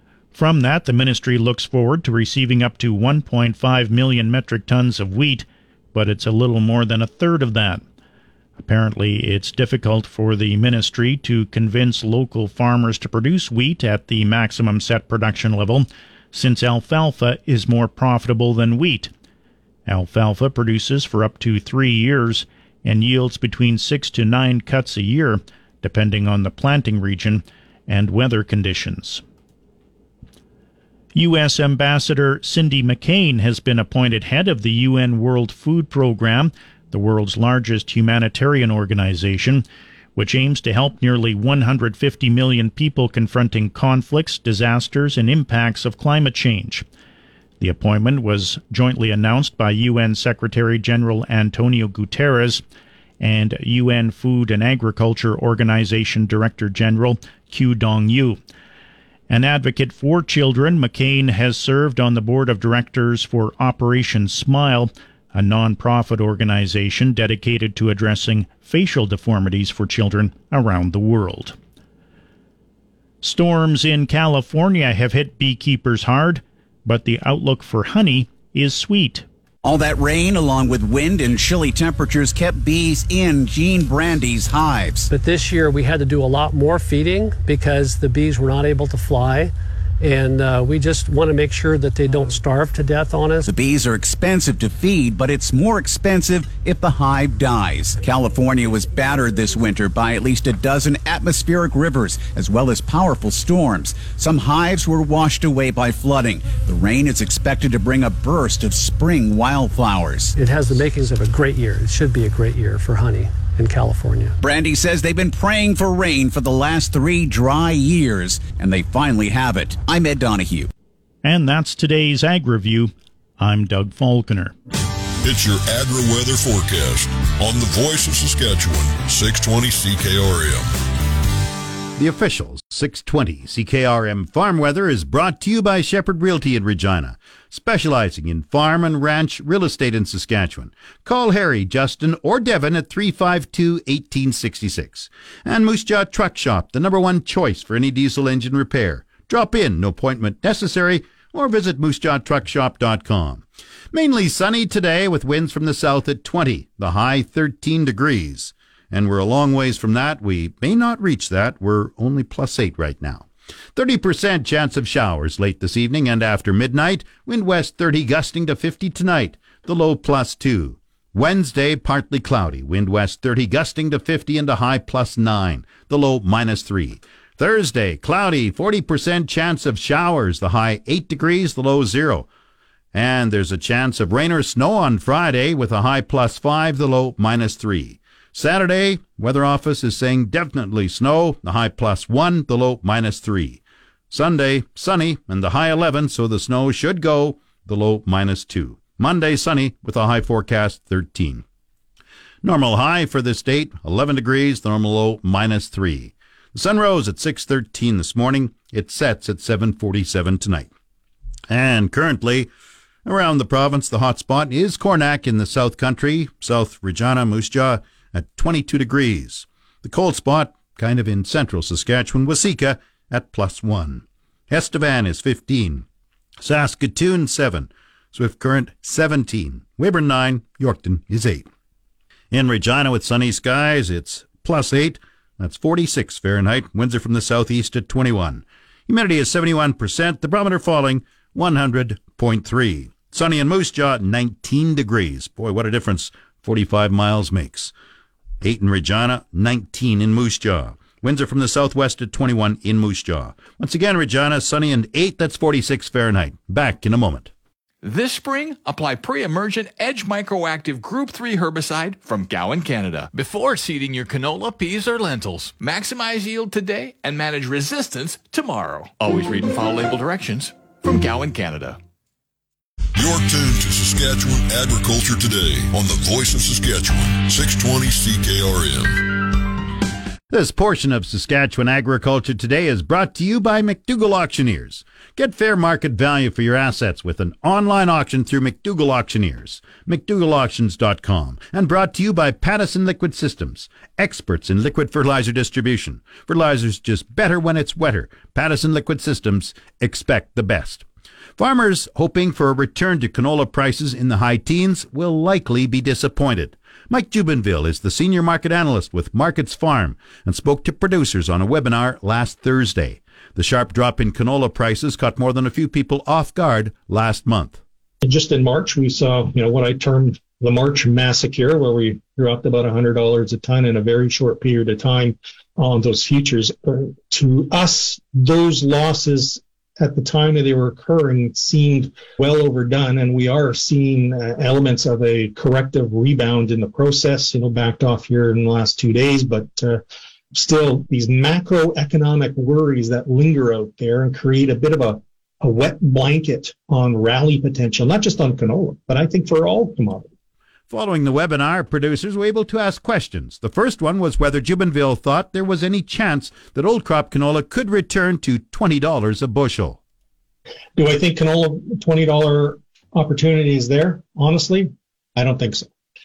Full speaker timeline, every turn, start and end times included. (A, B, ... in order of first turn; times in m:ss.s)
0:00.3-0:07.8 A
0:08.6-0:19.1 A
0:19.9-0:29.2 A
0:31.1-0:39.6 A
0:40.2-0:46.8 A
0:47.6-0:52.6 A
0:53.2-0:58.4 A
0:59.3-1:11.5 A
1:13.2-1:19.2 A
1:19.6-1:25.1 B
1:25.1-1:33.5 C
1:33.4-1:50.3 B
1:50.4-1:54.4 C
1:54.4-2:00.7 B
2:01.2-2:04.5 A
2:05.2-2:10.7 D
2:12.0-3:02.3 E
3:02.9-3:21.4 E
3:22.4-3:30.7 E
3:31.5-3:32.5 E
3:33.0-3:45.8 E
3:46.4-3:51.5 E
3:52.3-4:07.7 E
4:08.4-4:17.3 E
4:17.8-4:31.8 F
4:32.9-4:39.1 D
4:40.3-5:00.8 E
5:01.4-5:17.6 E
5:18.0-5:50.1 G
5:50.7-5:59.8 E
6:00.8-6:05.7 G